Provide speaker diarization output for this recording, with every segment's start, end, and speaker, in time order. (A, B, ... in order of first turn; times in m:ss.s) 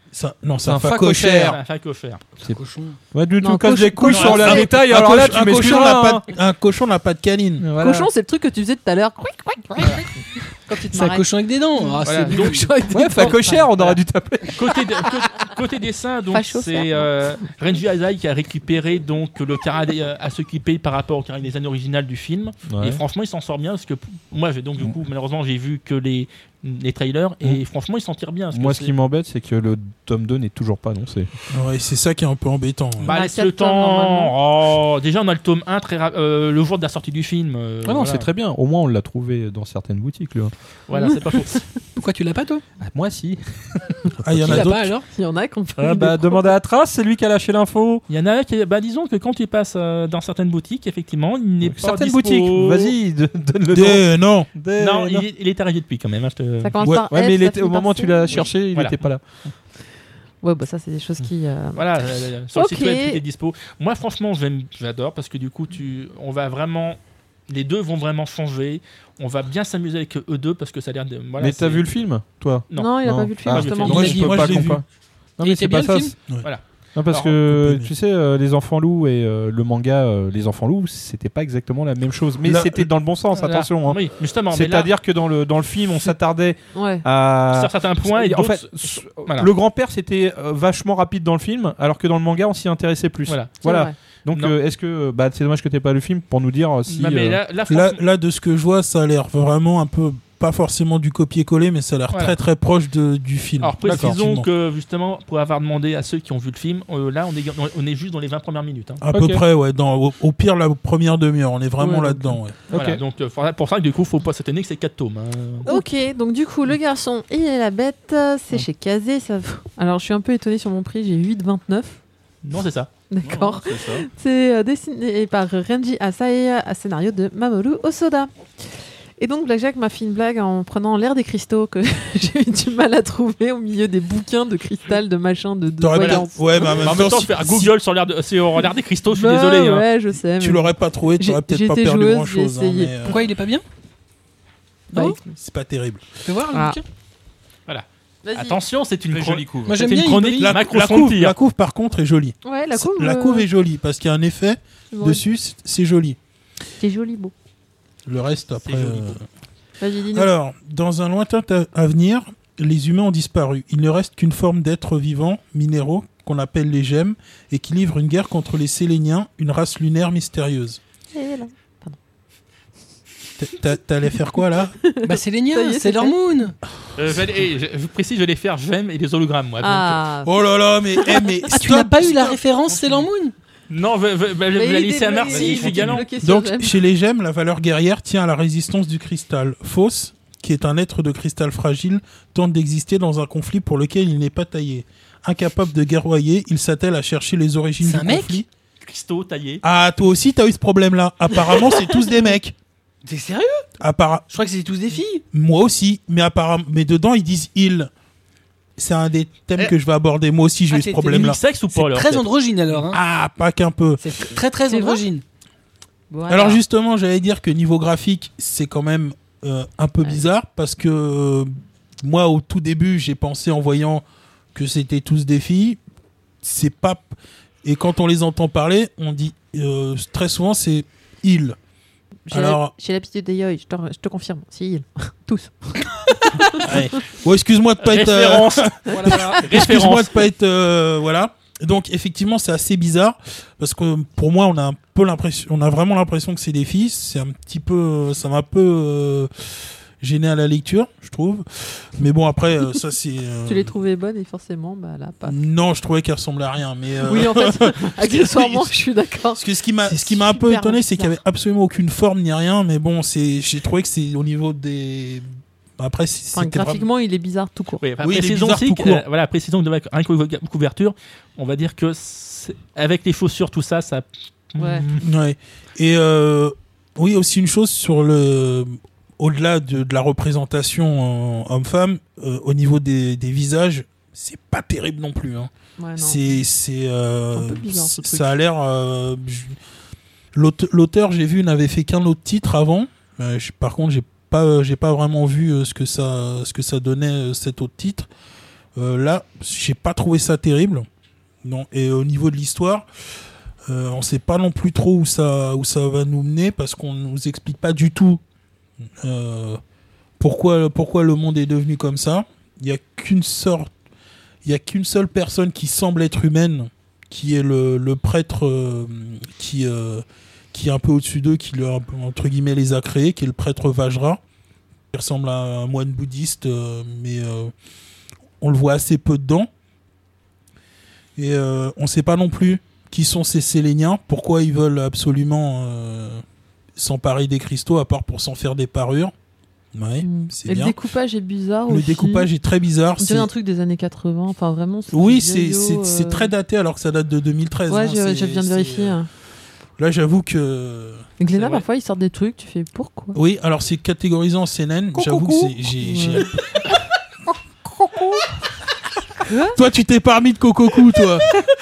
0:00.1-0:01.6 A
0:00.6-0:01.6 B
0:01.3-0:02.2 C
0:02.4-0:03.0 D
0:03.1-0:06.3 B
0:03.4-0:04.7 E
0:04.1-0:07.6 A
0:07.6-0:08.1 B
0:07.8-0:13.7 E
0:10.9-0:12.8 D
0:12.0-0:12.6 C
0:12.9-0:14.7 B
0:13.2-0:14.0 C
0:14.5-0:28.9 C
0:16.3-0:17.1 E
0:22.7-0:23.0 B
0:28.5-0:31.3 B
0:31.5-0:33.1 A
0:33.0-0:38.3 C
0:33.1-0:34.3 E
0:37.8-0:40.5 B
0:40.9-0:41.6 C
0:41.0-0:41.6 E
0:41.9-0:42.6 D
0:42.8-0:44.7 B
0:44.2-0:44.9 A
0:44.4-0:45.1 D
0:45.1-0:46.4 E
0:45.8-0:48.0 B
0:48.1-0:53.0 C
0:51.6-0:55.3 B
0:53.7-0:54.5 A
0:54.8-0:56.7 C
0:56.6-0:58.4 E
0:56.9-0:59.2 B
0:58.3-0:59.1 C
1:00.4-1:01.8 E
1:01.8-1:07.0 C
1:02.5-1:03.2 E
1:07.5-1:11.9 C
1:11.4-1:14.9 B
1:12.8-1:14.5 E
1:13.4-1:14.6 C
1:13.9-1:14.8 A
1:15.4-1:16.2 B
1:15.4-1:16.2 D
1:16.4-1:17.4 C
1:17.0-1:37.4 B
1:17.4-1:17.9 A
1:22.4-1:22.9 A
1:23.3-1:24.9 C
1:26.7-1:27.0 E
1:27.5-1:29.5 C
1:33.3-1:33.6 C
1:33.6-1:33.9 E
1:34.3-1:34.6 C
1:36.9-1:38.0 C
1:37.7-1:44.5 A
1:43.6-1:49.0 C
1:43.8-1:44.2 B
1:49.0-1:52.6 A
1:49.1-1:49.4 B
1:51.8-1:52.4 E
1:52.7-1:53.0 B
1:52.7-1:55.7 C
1:55.6-2:02.0 E
2:02.4-2:02.9 C
2:03.1-2:08.4 E
2:03.2-2:04.0 B
2:09.2-2:16.8 E
2:15.8-2:17.7 A
2:16.0-2:19.9 C
2:19.1-2:22.9 E
2:20.4-2:23.2 A
2:23.0-2:23.6 D
2:24.9-2:25.4 E
2:25.3-2:26.3 A
2:26.3-2:26.8 D
2:26.5-2:26.8 E
2:27.7-2:31.4 C
2:28.2-2:28.6 E
2:29.1-2:29.8 B
2:29.7-2:30.5 D
2:30.4-2:36.2 A
2:32.4-2:33.5 E
2:34.9-2:35.2 E
2:36.8-2:37.3 E
2:38.1-2:39.2 A
2:38.6-2:39.2 C
2:39.8-2:40.3 E
2:40.1-2:50.8 A
2:51.1-2:52.0 E
2:53.4-2:54.8 A
2:54.8-2:56.2 E
2:55.0-2:56.6 D
2:57.0-3:00.0 C
2:59.6-3:01.4 E
3:00.3-3:02.4 A
3:01.5-3:03.3 D
3:03.7-3:06.1 C
3:04.6-3:06.8 E
3:05.3-3:06.0 D
3:06.2-3:18.5 A
3:17.8-3:18.4 D
3:18.8-3:19.6 C
3:19.6-3:22.6 A
3:21.5-3:22.2 E
3:23.0-3:23.6 D
3:23.8-3:24.3 A
3:24.3-3:25.2 D
3:25.3-3:27.9 A
3:28.8-3:31.4 A
3:30.7-3:33.0 D
3:31.1-3:32.2 C
3:32.9-3:34.1 A
3:34.0-3:35.2 D
3:34.7-3:35.0 E
3:36.1-3:36.6 E
3:36.3-3:45.8 A
3:46.4-3:47.1 A
3:47.6-3:51.6 A
3:52.3-3:56.7 E
3:52.3-3:52.7 A
3:56.6-4:09.3 A
3:57.8-4:00.2 C
3:58.9-3:59.4 D
4:10.0-4:13.7 A
4:13.4-4:15.4 E
4:15.2-4:18.7 A
4:17.1-4:21.2 E
4:19.4-4:25.3 A
4:25.8-4:26.8 A
4:26.3-4:27.8 E
4:27.8-4:35.0 C
4:28.0-4:29.0 A
4:34.6-4:34.9 E
4:35.0-4:49.6 A
4:45.8-4:46.2 E
4:47.3-4:48.4 E
4:50.3-4:58.1 A
4:58.8-5:00.9 A
5:01.4-5:02.8 A
5:03.7-5:08.2 A
5:09.0-5:09.6 A
5:10.2-5:13.7 A
5:14.4-5:24.2 A
5:24.9-5:27.5 A
5:28.4-5:29.5 A
5:31.2-5:36.2 A
5:36.8-5:39.1 A
5:39.8-5:40.8 A
5:40.0-5:42.3 E
5:41.7-5:43.3 A
5:43.0-5:46.3 E
5:44.9-5:49.0 A
5:47.7-5:49.1 E
5:49.8-5:51.0 A
5:51.2-5:53.2 E
5:51.4-5:51.6 C
5:53.2-5:56.4 A
5:54.9-5:55.6 B
5:55.8-5:56.2 E
5:57.7-5:58.2 B
5:59.2-5:59.6 E
5:59.6-6:01.3 A